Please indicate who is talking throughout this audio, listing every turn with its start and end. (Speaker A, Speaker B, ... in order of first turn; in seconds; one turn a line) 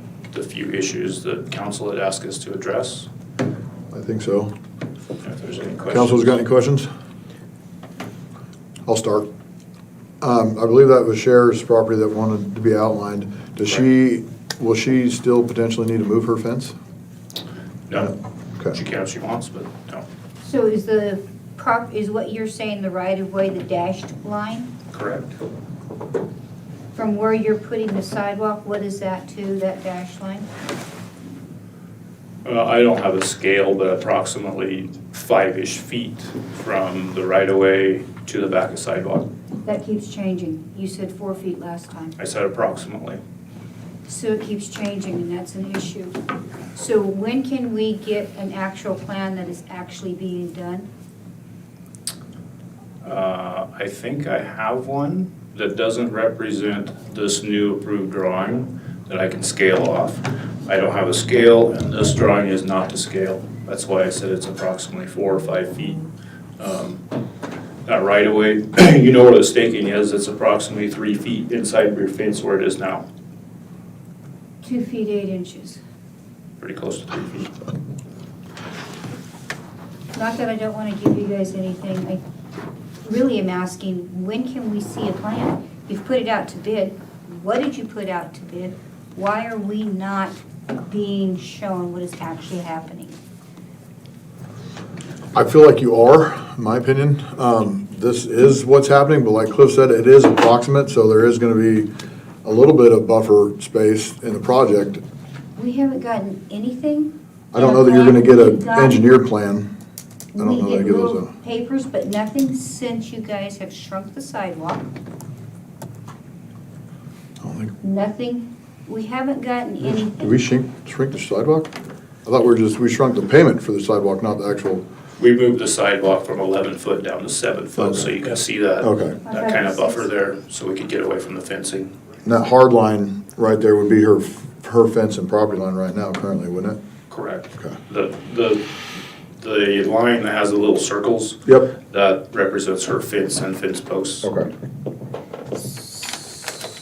Speaker A: 0.3-3.1
Speaker B: 3.9-4.5
Speaker A: 5.2-6.3
Speaker B: 5.9-6.9
Speaker B: 8.8-9.2
Speaker B: 10.2-16.7
Speaker A: 17.9-18.1
Speaker A: 18.7-20.0
Speaker C: 20.4-24.7
Speaker A: 24.9-25.3
Speaker C: 26.9-30.4
Speaker A: 32.4-39.3
Speaker C: 39.6-42.1
Speaker A: 42.2-43.2
Speaker C: 44.1-46.2
Speaker C: 46.7-50.9
Speaker A: 53.0-66.0
Speaker A: 66.6-67.0
Speaker A: 67.8-73.0
Speaker C: 74.6-75.8
Speaker A: 76.6-77.5
Speaker C: 80.1-82.2
Speaker C: 83.0-93.1
Speaker B: 95.3-101.9
Speaker B: 102.4-105.0
Speaker C: 105.5-109.0
Speaker B: 107.5-109.7
Speaker C: 110.3-114.9
Speaker B: 110.4-111.3
Speaker B: 117.4-117.7
Speaker C: 117.8-120.4
Speaker B: 119.8-121.7
Speaker B: 122.2-124.8
Speaker A: 125.2-131.9
Speaker B: 127.8-128.1
Speaker B: 128.8-129.2
Speaker C: 129.2-130.1
Speaker B: 132.2-136.8
Speaker A: 137.1-138.7
Speaker A: 139.4-144.3
Speaker B: 144.2-144.5